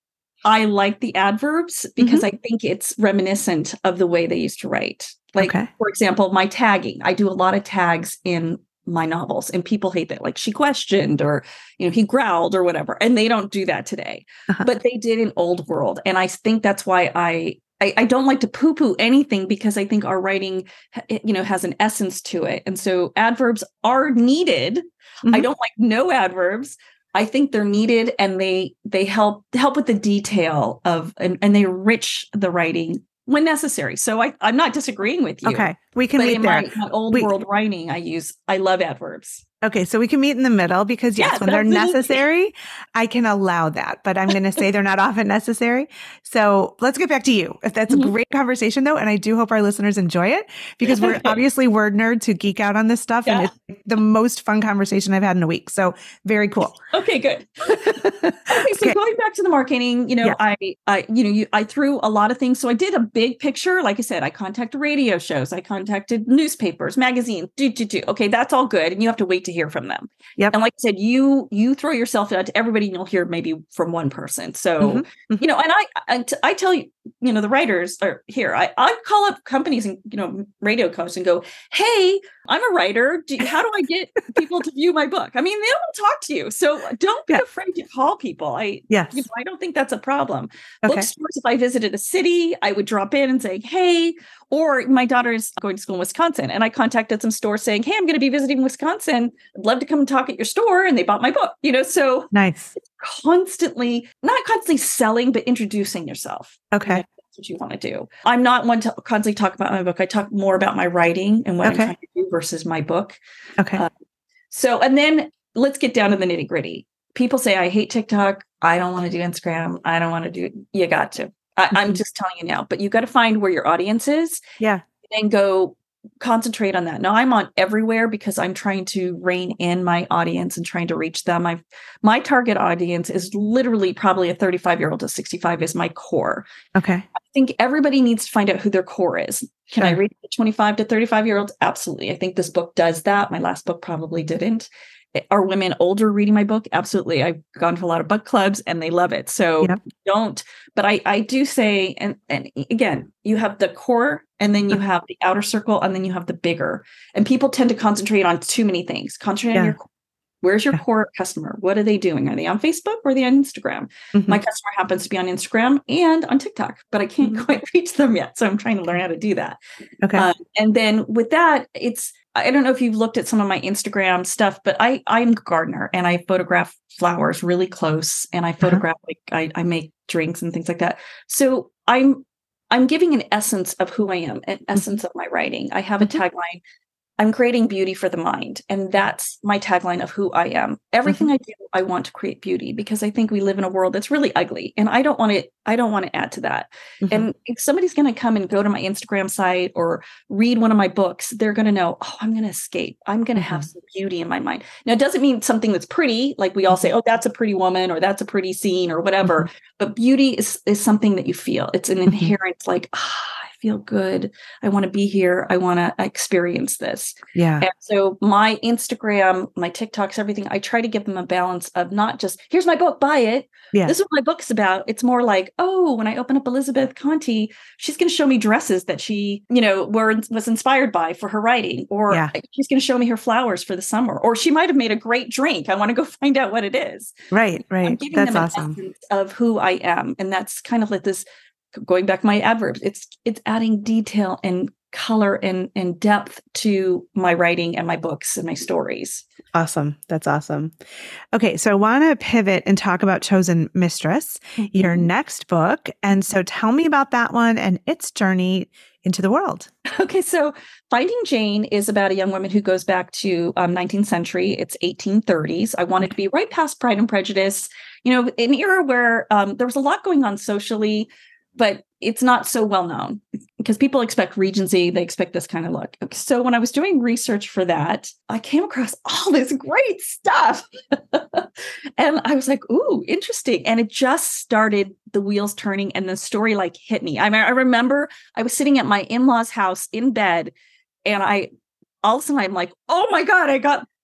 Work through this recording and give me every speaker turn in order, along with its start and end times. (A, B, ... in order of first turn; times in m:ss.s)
0:00.4-0:39.4 A
0:02.0-0:02.2 B
0:05.4-0:05.7 B
0:35.4-0:37.3 B
0:39.6-0:56.8 B
0:41.2-0:42.2 A
0:50.9-0:51.4 A
0:56.9-1:53.2 A
0:57.8-0:59.0 B
1:14.8-1:15.4 B
1:28.9-1:29.2 B
1:42.3-1:42.7 B
1:46.7-1:47.0 B
1:51.6-1:51.9 B
1:54.5-2:04.4 A
2:05.1-2:16.4 A
2:16.7-2:17.0 B
2:17.1-2:39.8 A
2:40.4-2:49.6 A
2:44.1-2:44.4 B
2:50.0-2:50.3 B
2:50.1-3:06.6 A
3:07.2-3:57.1 A
3:23.4-3:23.6 B
3:37.3-3:37.6 B
3:57.3-3:58.7 B
3:57.8-4:09.2 A
4:09.5-4:10.8 B
4:11.3-4:19.7 B
4:14.6-4:15.1 A
4:20.0-4:50.5 A
4:51.0-4:51.5 A
4:52.0-4:53.8 A